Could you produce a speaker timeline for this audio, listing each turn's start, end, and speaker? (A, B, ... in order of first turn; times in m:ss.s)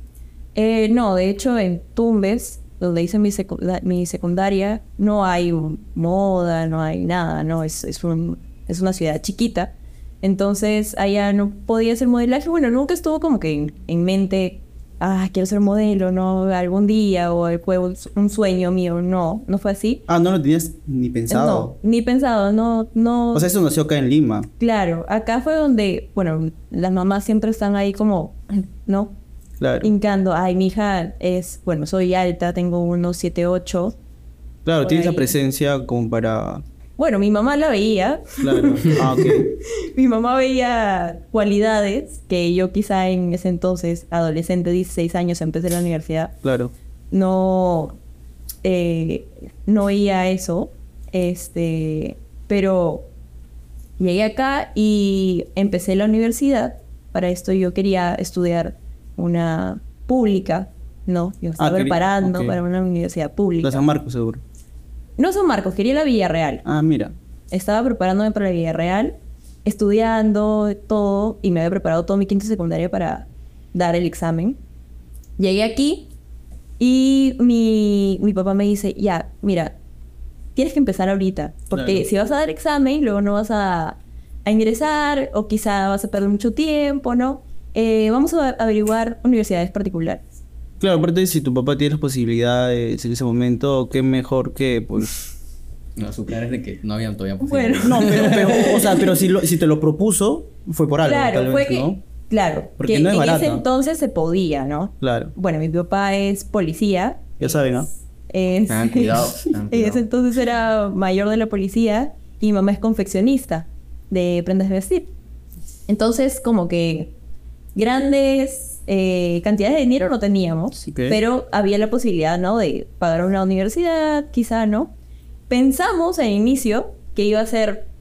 0:00.6-0:20.0 A
0:20.1-0:21.8 B
0:21.3-0:23.5 A
0:23.3-0:24.5 B
0:24.6-0:29.2 A
0:29.6-0:29.9 B
0:29.8-0:34.0 A
0:34.6-0:36.6 B
0:34.8-0:35.3 A
0:37.0-0:46.4 A
0:38.4-0:39.5 B
0:46.4-0:46.7 B
0:47.1-0:48.0 A
0:48.6-0:53.1 A
0:54.0-1:03.8 A
1:01.6-1:02.6 B
1:03.6-1:04.4 B
1:05.2-1:06.6 A
1:06.6-1:07.2 B
1:07.5-1:14.6 A
1:15.4-1:16.1 A
1:16.8-1:19.8 A
1:20.6-1:30.2 A
1:21.7-1:22.1 B
1:30.8-1:35.1 B
1:36.0-1:39.0 C
1:37.4-1:39.0 A
1:37.8-1:42.0 B
1:41.0-1:55.1 A
1:42.8-1:43.6 B
1:45.0-1:45.3 B
1:47.4-1:47.9 B
1:48.7-1:50.0 C
1:55.9-1:57.1 A
1:57.8-2:04.9 A
2:00.9-2:01.2 B
2:05.5-2:07.9 A